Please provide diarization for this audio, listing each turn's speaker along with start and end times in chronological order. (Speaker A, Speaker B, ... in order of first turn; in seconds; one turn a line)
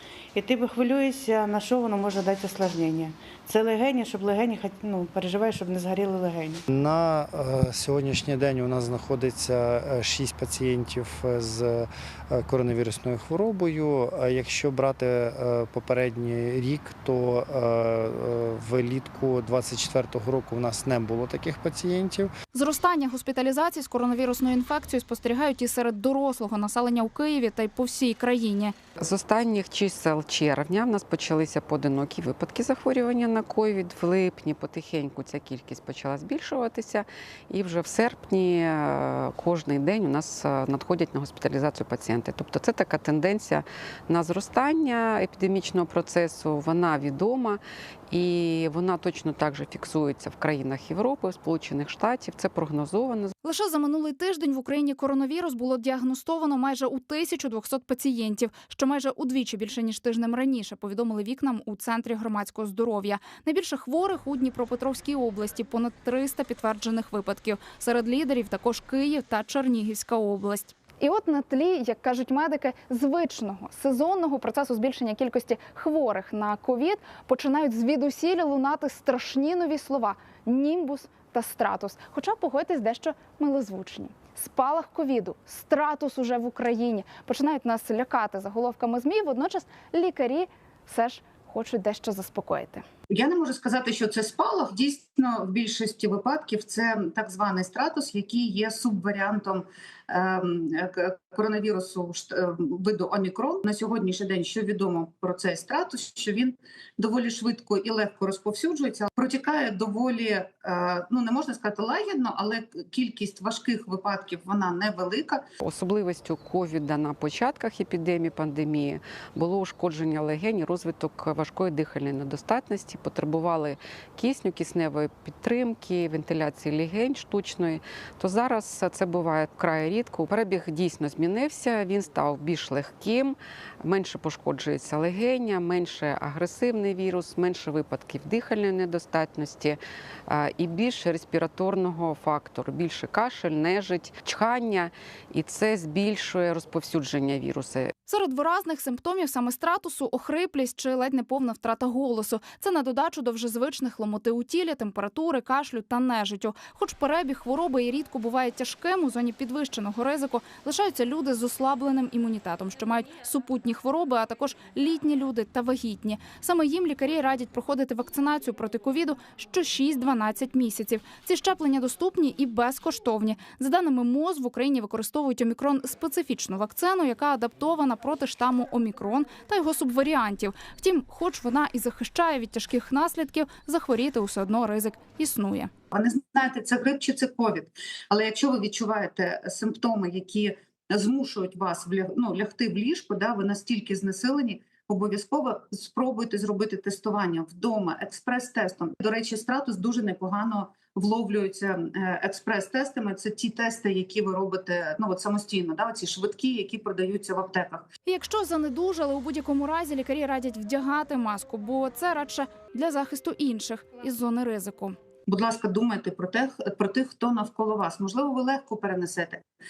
Speaker A: 0.3-6.6
Speaker B: 6.7-22.3
Speaker C: 22.5-28.7
Speaker D: 29.0-53.3
Speaker C: 53.4-92.9
Speaker E: 93.1-115.5
Speaker D: 115.6-147.9
Speaker C: 148.1-185.7
Speaker E: 185.9-207.9
Speaker C: 208.1-215.0
Speaker E: 215.3-219.4